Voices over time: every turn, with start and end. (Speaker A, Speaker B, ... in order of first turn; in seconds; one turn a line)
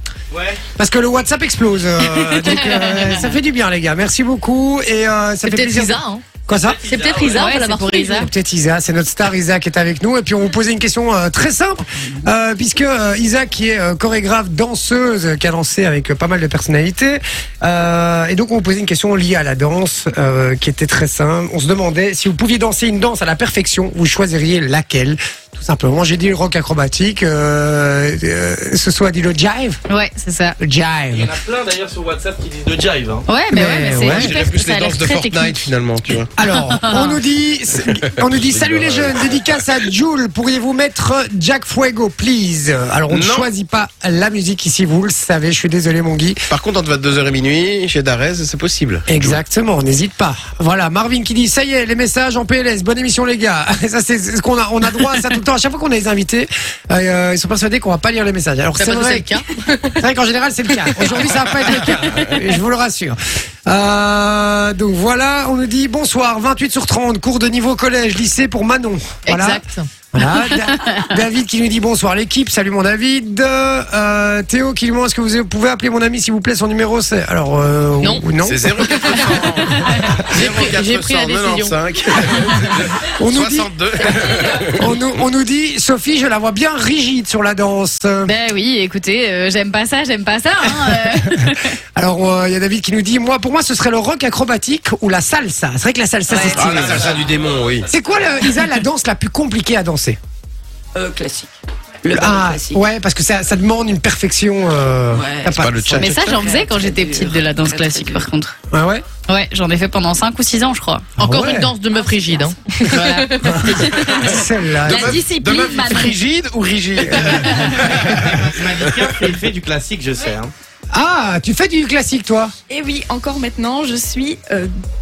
Speaker A: 0.3-0.6
Speaker B: 0.8-6.8
Speaker C: 2.0-3.3
Speaker D: 5.4-6.3
Speaker A: 6.5-7.5
Speaker D: 6.8-8.3
Speaker C: 7.3-8.3
Speaker B: 8.1-29.8
Speaker E: 11.9-12.3
Speaker C: 29.9-30.6
Speaker B: 30.6-31.3
Speaker A: 31.1-33.3
Speaker C: 33.3-35.7
Speaker B: 33.5-34.3
Speaker F: 34.0-36.3
Speaker B: 36.4-46.5
Speaker C: 36.5-37.2
Speaker F: 38.3-39.4
Speaker F: 43.1-43.5
Speaker F: 46.5-49.4
Speaker B: 49.1-59.4
Speaker D: 58.7-60.0
Speaker B: 59.9-79.3
Speaker D: 60.8-61.1
Speaker F: 62.0-62.3
Speaker D: 69.3-69.9
Speaker C: 70.2-71.1
Speaker D: 78.0-78.3
Speaker F: 78.4-85.0
Speaker D: 80.3-81.8
Speaker B: 83.2-84.2
Speaker B: 84.7-88.3
Speaker C: 88.2-91.7
Speaker B: 90.7-97.2
Speaker C: 96.3-96.6
Speaker A: 96.5-98.5
Speaker F: 96.5-97.9
Speaker B: 97.9-100.2
Speaker E: 100.9-101.5
Speaker E: 102.0-102.8
Speaker B: 102.1-106.0
Speaker E: 105.1-108.3
Speaker F: 105.5-106.4
Speaker C: 106.0-108.5
Speaker B: 108.7-109.0
Speaker C: 109.3-111.1
Speaker D: 111.2-113.7
Speaker B: 111.2-111.7
Speaker C: 112.9-116.2
Speaker B: 113.4-115.2
Speaker F: 114.8-118.4
Speaker B: 117.0-118.0
Speaker A: 117.8-120.5
Speaker B: 120.9-122.5
Speaker G: 122.7-124.7